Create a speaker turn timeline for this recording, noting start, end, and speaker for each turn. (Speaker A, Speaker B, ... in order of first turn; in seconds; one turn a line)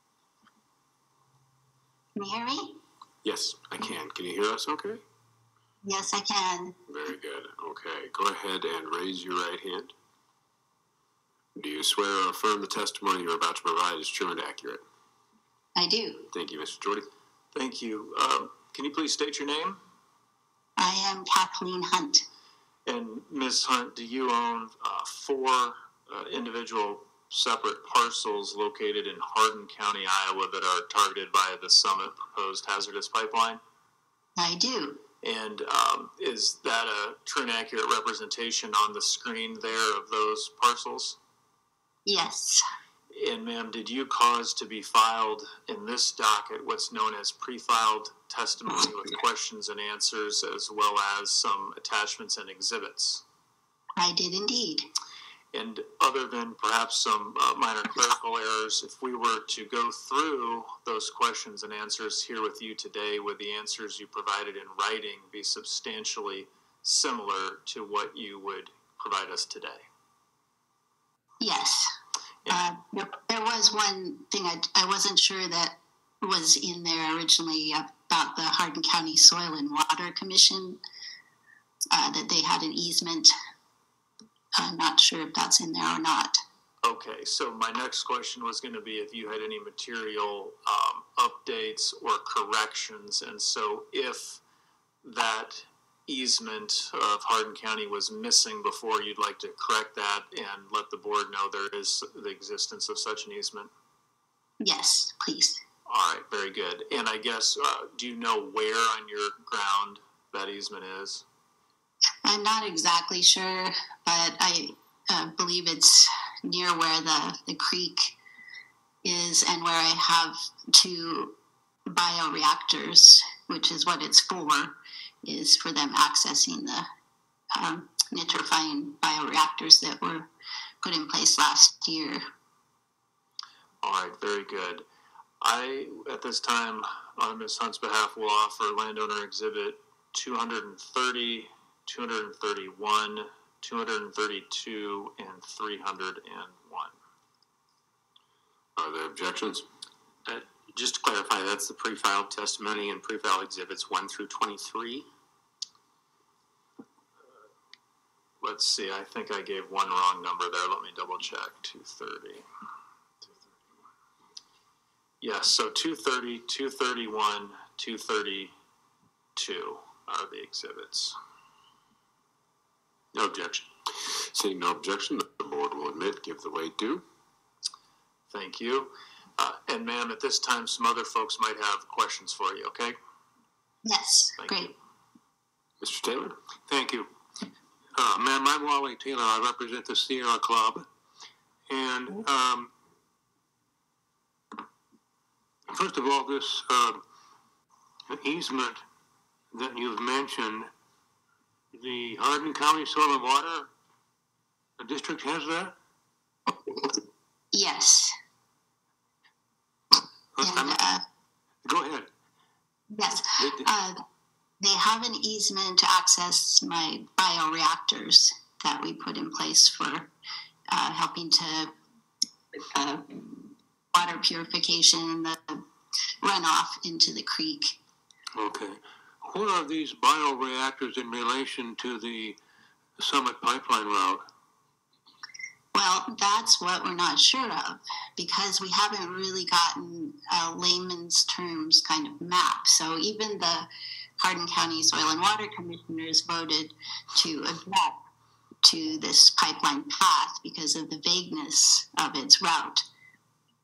Speaker A: 2.1-2.8
Speaker B: 3.2-5.0
Speaker A: 5.8-6.8
Speaker B: 6.9-9.9
Speaker B: 11.6-14.8
Speaker A: 15.8-16.3
Speaker B: 16.3-17.1
Speaker C: 17.5-19.8
Speaker A: 20.8-22.2
Speaker C: 22.9-33.6
Speaker A: 34.4-35.0
Speaker C: 35.2-41.2
Speaker A: 42.0-42.6
Speaker C: 43.1-53.2
Speaker A: 54.0-54.9
Speaker C: 55.5-69.8
Speaker A: 71.4-71.9
Speaker A: 72.5-80.8
Speaker A: 81.9-83.3
Speaker A: 84.5-86.4
Speaker C: 86.8-94.4
Speaker C: 95.0-103.7
Speaker A: 104.6-105.6
Speaker C: 105.9-111.2
Speaker A: 112.2-118.2
Speaker A: 119.0-126.9
Speaker A: 127.5-130.3
Speaker A: 130.8-132.2
Speaker C: 133.8-134.8
Speaker C: 135.4-146.9
Speaker B: 148.8-149.7
Speaker D: 150.2-155.1
Speaker C: 158.4-162.4
Speaker C: 165.2-168.5
Speaker C: 169.3-171.1
Speaker D: 173.1-173.7
Speaker B: 174.0-177.0
Speaker C: 178.3-182.9
Speaker A: 183.8-184.7
Speaker B: 185.8-186.4
Speaker E: 186.7-187.1
Speaker E: 187.9-190.8
Speaker E: 191.7-192.7
Speaker E: 195.7-197.0
Speaker E: 198.1-198.8
Speaker E: 199.5-200.7
Speaker E: 201.7-203.7
Speaker E: 204.8-205.7
Speaker A: 207.5-208.1
Speaker E: 210.4-211.0
Speaker A: 210.4-211.0
Speaker E: 211.6-212.1
Speaker A: 212.9-214.0
Speaker E: 213.4-213.7
Speaker A: 214.6-220.1
Speaker A: 220.7-221.7
Speaker A: 222.7-225.6
Speaker A: 226.2-227.8
Speaker E: 228.4-232.4
Speaker E: 233.0-234.2
Speaker A: 235.7-243.7
Speaker A: 244.2-247.9
Speaker A: 248.6-252.8